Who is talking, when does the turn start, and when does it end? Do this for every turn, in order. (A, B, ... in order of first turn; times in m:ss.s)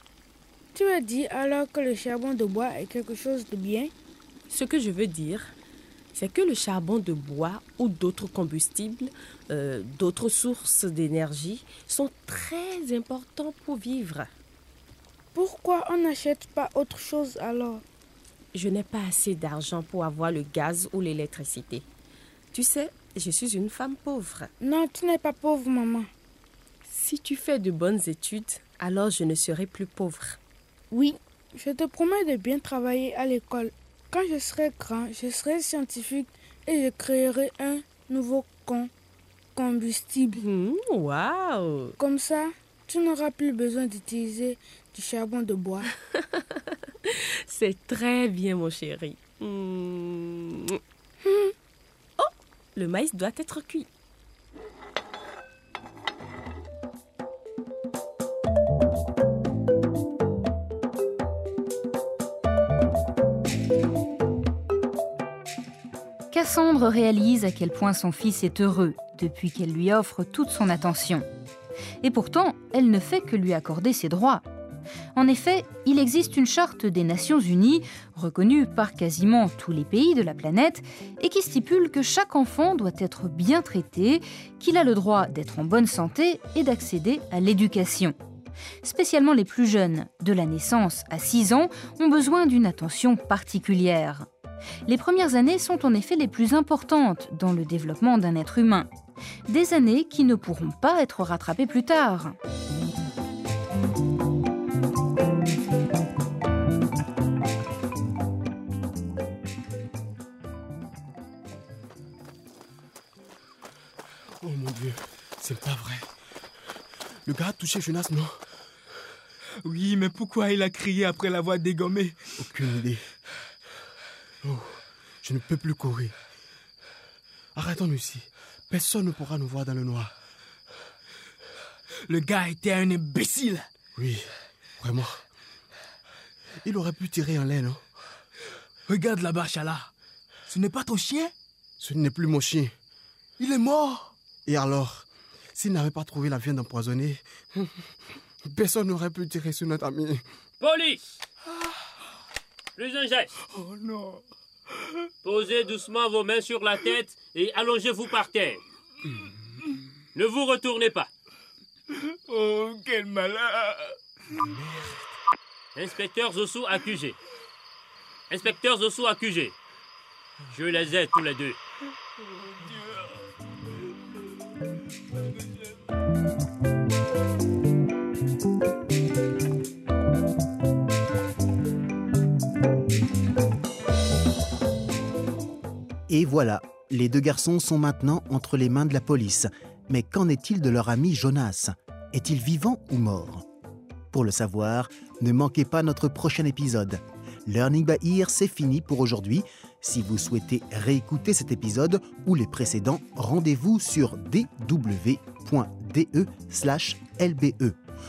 0:00.7-0:03.9 A
0:04.5-0:05.5 B
0:06.2-0:14.3 B
0:15.3-0:17.8 A
0:18.5-0:21.8 B
0:22.5-0:24.5 B
0:24.6-0:26.1 A
0:26.9-0:30.4 B
0:30.9-0:38.9 A
0:39.6-0:40.4 A
0:40.4-0:42.0 B
0:42.0-0:45.9 A
0:47.1-0:50.8 B
0:52.2-0:53.9 B
1:06.3-1:11.3 C
1:12.0-1:14.4 C
1:15.2-1:28.2 C
1:28.8-1:34.3 C
1:34.9-1:38.9 C
1:39.5-1:42.4 C
1:54.4-1:56.1 D
1:57.3-1:58.4 D
1:59.6-2:02.5 E
2:02.4-2:03.0 D
2:04.4-2:06.1 D
2:07.6-2:10.1 D
2:12.0-2:13.7 E
2:14.0-2:15.2 D
2:16.6-2:17.8 D
2:18.9-2:19.9 E
2:20.5-2:21.3 E
2:21.8-2:22.7 D
2:23.4-2:24.1 E
2:24.5-2:27.8 D
2:28.4-2:30.2 D
2:30.6-2:31.0 F
2:32.8-2:33.4 F
2:33.6-2:34.2 E
2:35.2-2:38.6 F
2:40.2-2:41.1 F
2:42.3-2:43.9 E
2:44.4-2:45.0 D
2:45.8-2:47.2 F
2:48.3-2:49.6 F
2:50.5-2:51.6 F
3:06.1-3:13.4 G
3:14.1-3:27.8 G